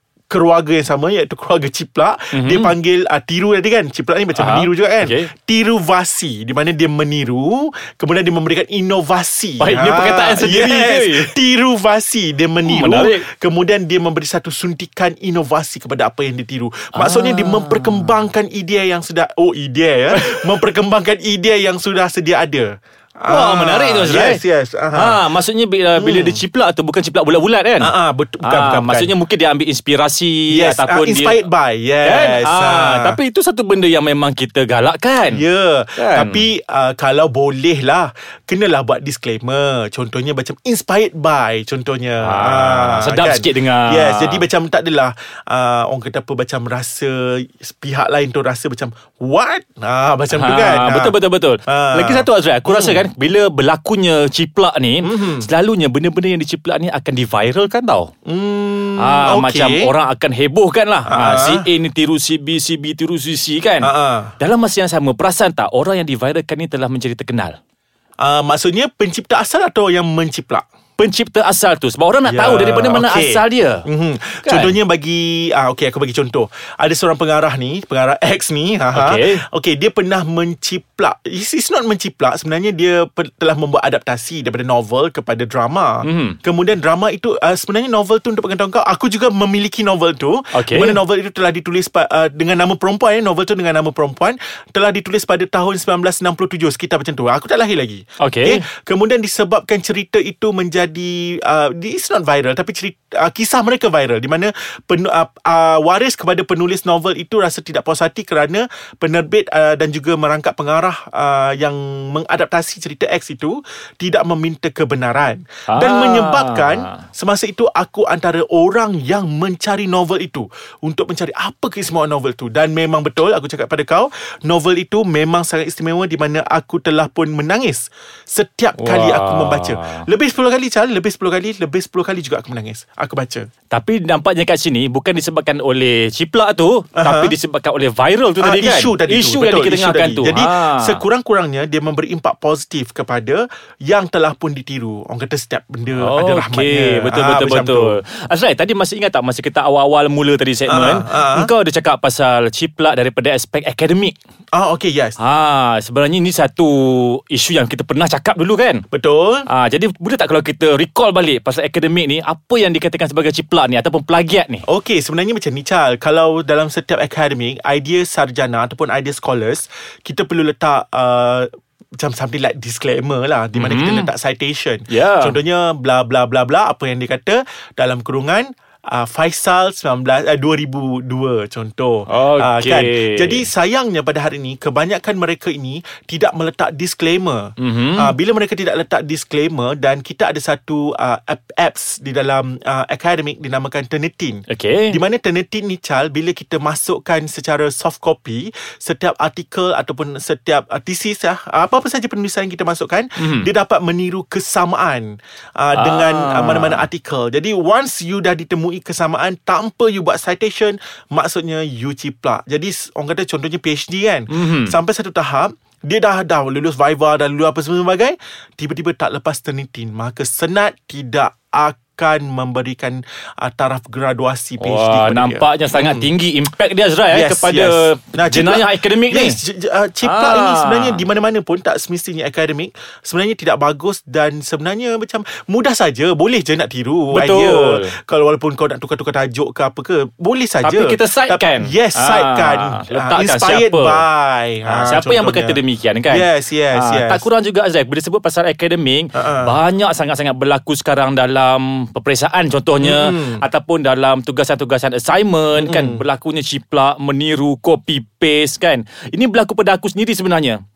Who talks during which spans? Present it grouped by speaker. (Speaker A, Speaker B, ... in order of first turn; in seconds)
Speaker A: 0.3-25.2, 25.9-26.4, 27.8-29.1, 30.5-33.2, 35.3-53.0, 55.0-55.5, 58.2-59.9, 61.1-61.7, 63.8-64.3, 68.2-70.6, 72.2-133.5, 136.9-137.3, 138.4-148.0, 150.7-151.5, 154.5-155.2, 158.9-159.5, 164.7-226.1, 227.1-247.2, 249.1-249.6, 252.8-253.4, 255.5-256.0
Speaker B: 2.3-2.7, 4.3-5.3, 9.6-11.3, 12.6-13.2, 16.9-18.1, 20.1-20.5, 23.3-31.4, 32.0-35.4, 36.0-36.5, 42.2-44.5, 50.3-58.1, 59.0-67.5, 71.0-73.9, 74.4-74.8, 78.9-79.4, 86.0-86.4, 90.5-91.0, 98.2-98.6, 115.7-117.0, 128.8-130.0, 133.7-141.0, 146.0-154.2, 155.2-158.8, 159.5-164.7, 173.5-174.1, 174.9-175.4, 182.1-183.5, 187.6-188.1, 194.5-195.0, 203.2-203.5, 205.7-206.8, 214.3-214.8, 224.6-229.4, 230.0-231.0, 237.1-237.9, 240.6-244.0, 244.6-260.6